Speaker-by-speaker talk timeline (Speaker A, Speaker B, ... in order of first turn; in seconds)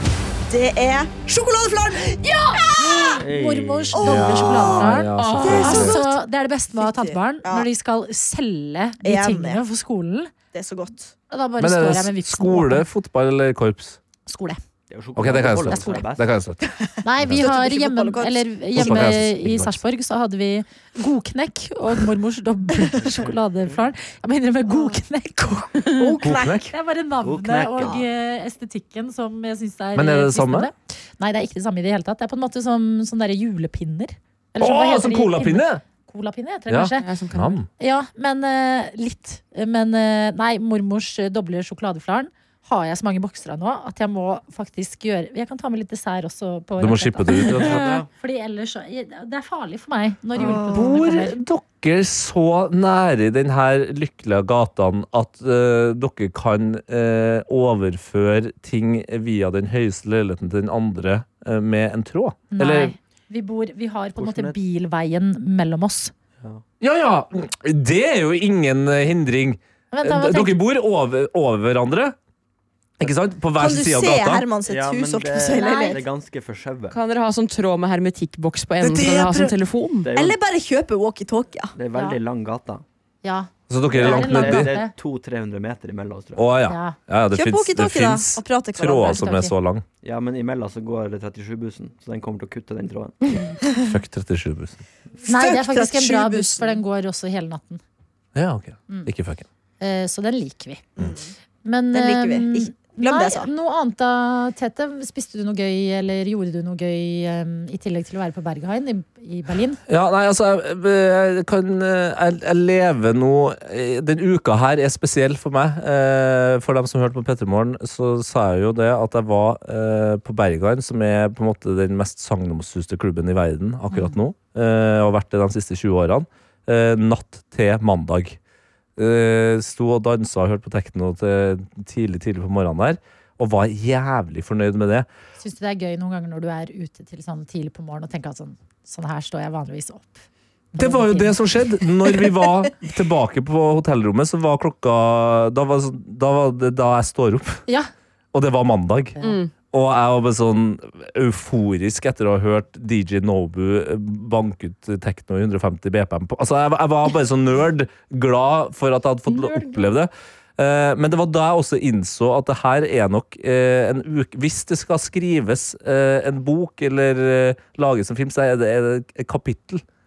Speaker A: 0.5-3.2, 3.9-6.0, 6.7-7.7, 9.0-9.6, 10.5-11.1, 16.7-19.0, 24.7-25.0, 25.9-26.7, 50.4-51.0, 73.6-76.0, 80.1-81.7, 87.3-89.3, 95.2-96.8, 101.0-101.3, 101.9-103.5
Speaker B: 2.8-10.3, 11.3-12.9, 14.3-14.6, 15.6-16.1, 17.0-37.1, 37.8-51.4, 62.5-66.1, 69.9-70.6, 75.4-76.0, 83.2-84.9, 86.7-87.0, 89.0-89.5, 95.2-97.8, 99.8-101.0, 101.7-109.8, 135.4-140.2, 140.8-141.5
Speaker C: 3.2-4.1, 14.9-16.3, 23.0-23.8, 27.2-28.1, 47.5-48.1, 64.2-64.6, 74.6-77.0, 80.0-80.4, 81.8-82.8, 83.9-86.5, 90.0-93.4
Speaker D: 4.0-6.0, 11.6-14.0, 15.2-16.6, 18.7-19.8, 26.2-26.7, 29.9-30.7, 34.6-35.8, 36.7-37.7, 46.8-48.0, 50.7-63.0, 66.8-72.2, 73.0-74.5, 78.8-79.5, 83.7-84.8, 86.4-89.8, 93.9-94.8, 98.3-99.5, 109.9-128.4, 129.0-135.1, 140.8-147.6, 148.3-169.8
Speaker E: 5.2-5.7, 37.0-37.6, 76.9-80.1, 149.2-149.5, 159.3-159.9